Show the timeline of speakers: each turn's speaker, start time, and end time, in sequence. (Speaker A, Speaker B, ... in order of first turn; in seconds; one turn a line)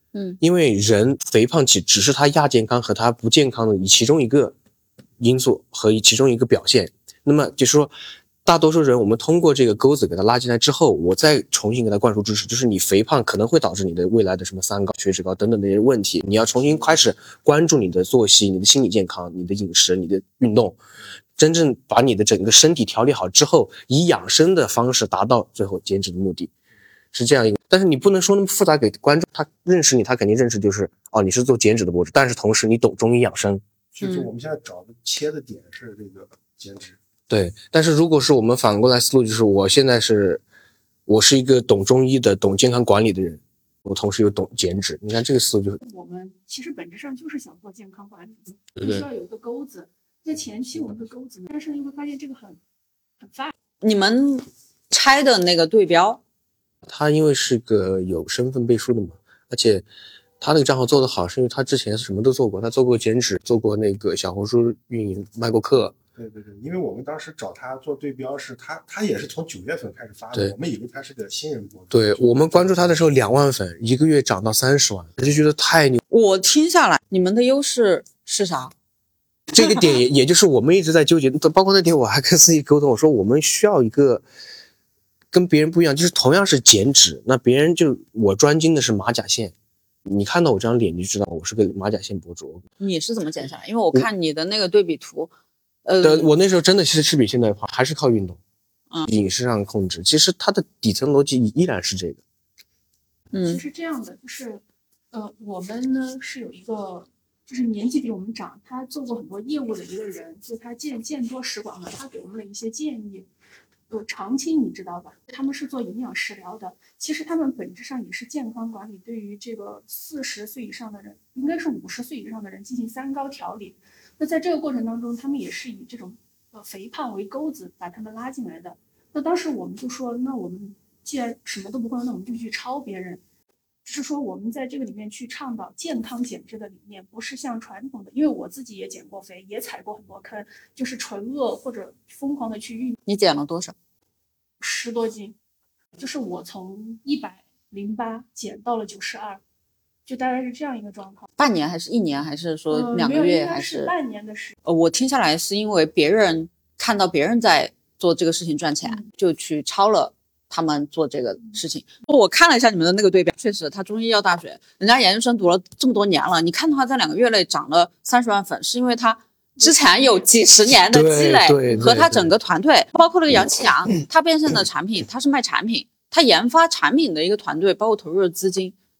Speaker A: 0.4-4.5
Speaker A: 5.2-7.9
Speaker A: 8.4-20.8
Speaker A: 21.4-26.5
Speaker A: 27.1-33.6
Speaker B: 33.9-37.0
Speaker C: 34.0-34.3
Speaker A: 37.3-40.4
Speaker A: 41.1-45.8
Speaker D: 45.8-52.6
Speaker A: 48.8-49.1
Speaker D: 53.2-53.5
Speaker C: 53.8-56.2
Speaker A: 56.9-59.9
Speaker A: 60.4-65.9
Speaker B: 66.2-73.0
Speaker A: 71.9-76.0
Speaker C: 76.1-78.7
Speaker A: 79.5-84.2
Speaker A: 85.3-89.5
Speaker A: 90.0-92.6
Speaker C: 92.8-95.3
Speaker C: 95.8-96.3
Speaker A: 96.0-98.4
Speaker A: 99.0-102.2
Speaker C: 103.3-103.6
Speaker D: 103.4-113.3
Speaker D: 113.9-133.2
Speaker D: 133.8-142.9
Speaker C: 143.1-143.7
Speaker D: 144.6-145.3
Speaker D: 146.0-149.4
Speaker D: 150.1-151.2
Speaker C: 151.4-153.9
Speaker D: 152.7-154.6
Speaker C: 154.6-178.7
Speaker A: 170.7-172.3